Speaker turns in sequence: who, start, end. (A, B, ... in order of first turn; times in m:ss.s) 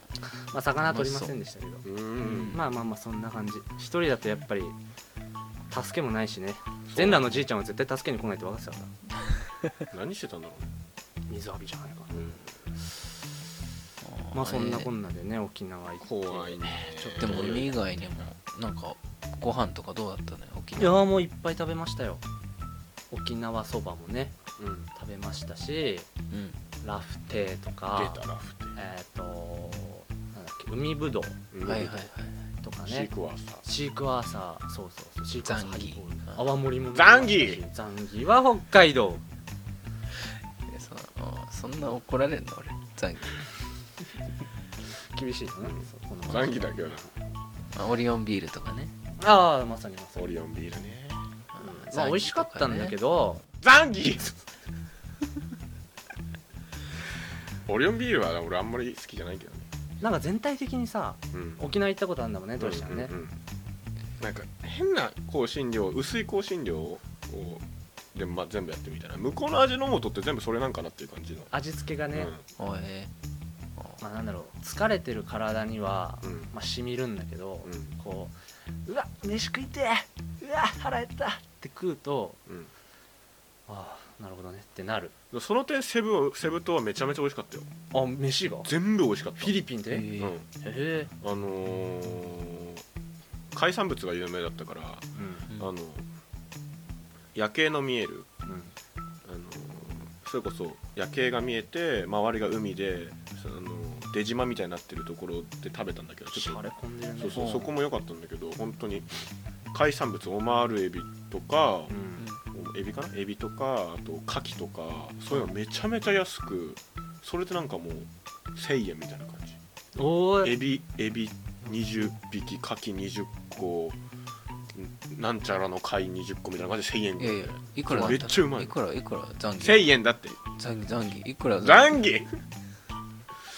0:00.5-0:01.8 A
0:00.8-0:01.3 B
0:01.8-0:02.6 C
0:02.2-0:02.6 B
0:02.5-0:04.8 A
0:05.7-0:08.9 A
0:06.9-0:07.4 C
0:09.9-0:10.7 C
0:11.3-0:12.2 A
0:12.1-0:12.4 C
0:14.0-0:14.9 B
0:14.3-0:17.8 A
0:16.0-0:17.8 C
0:17.2-0:21.1 B
0:20.8-0:22.2 A
0:23.1-0:24.4 A
0:24.6-0:24.9 C
0:24.9-0:26.1 A
0:26.3-0:26.6 B
0:26.8-0:28.2 A
0:27.9-0:28.7 C
0:28.7-0:31.4 A
0:31.5-0:32.0 C
0:31.6-0:32.4 B
0:32.6-0:33.1 A
0:32.8-0:33.6 C
0:33.6-0:39.2 A
0:35.4-0:36.0 B
0:36.9-0:37.6 C
0:40.6-0:43.4 B
0:45.1-0:46.8 A
0:45.6-0:47.1 C
0:47.7-0:48.9 B
0:49.2-0:50.3 A
0:50.2-0:51.2 C
0:51.6-0:53.0 B
0:51.6-0:53.4 A
0:53.6-0:54.3 C
0:57.6-0:59.7 C
1:00.0-1:03.1 A
1:01.3-1:01.6 C
1:02.6-1:03.4 C
1:04.2-1:11.5 C
1:11.5-1:12.3 A
1:12.1-1:12.4 C
1:12.6-1:13.1 B
1:14.0-1:22.4 A
1:16.2-1:16.5 C
1:17.6-1:17.9 C
1:23.7-1:25.1 A
1:25.3-1:27.7 C
1:27.9-1:28.7 A
1:28.6-1:29.6 C
1:29.4-1:31.1 A
1:29.9-1:30.3 B
1:30.2-1:30.5 C
1:31.2-1:32.8 C
1:33.5-1:36.0 C
1:35.1-1:35.5 A
1:37.3-1:38.3 C
1:38.4-1:38.7 A
1:39.2-1:46.6 C
1:46.3-1:47.6 A
1:47.2-1:49.2 C
1:47.3-1:47.7 B
1:49.7-1:59.6 C
1:51.9-1:52.3 A
2:00.0-2:00.5 A
2:00.4-2:04.0 C
2:04.7-2:08.8 C
2:07.2-2:09.9 B
2:09.6-2:10.4 C
2:10.6-2:12.0 B
2:11.6-2:12.4 C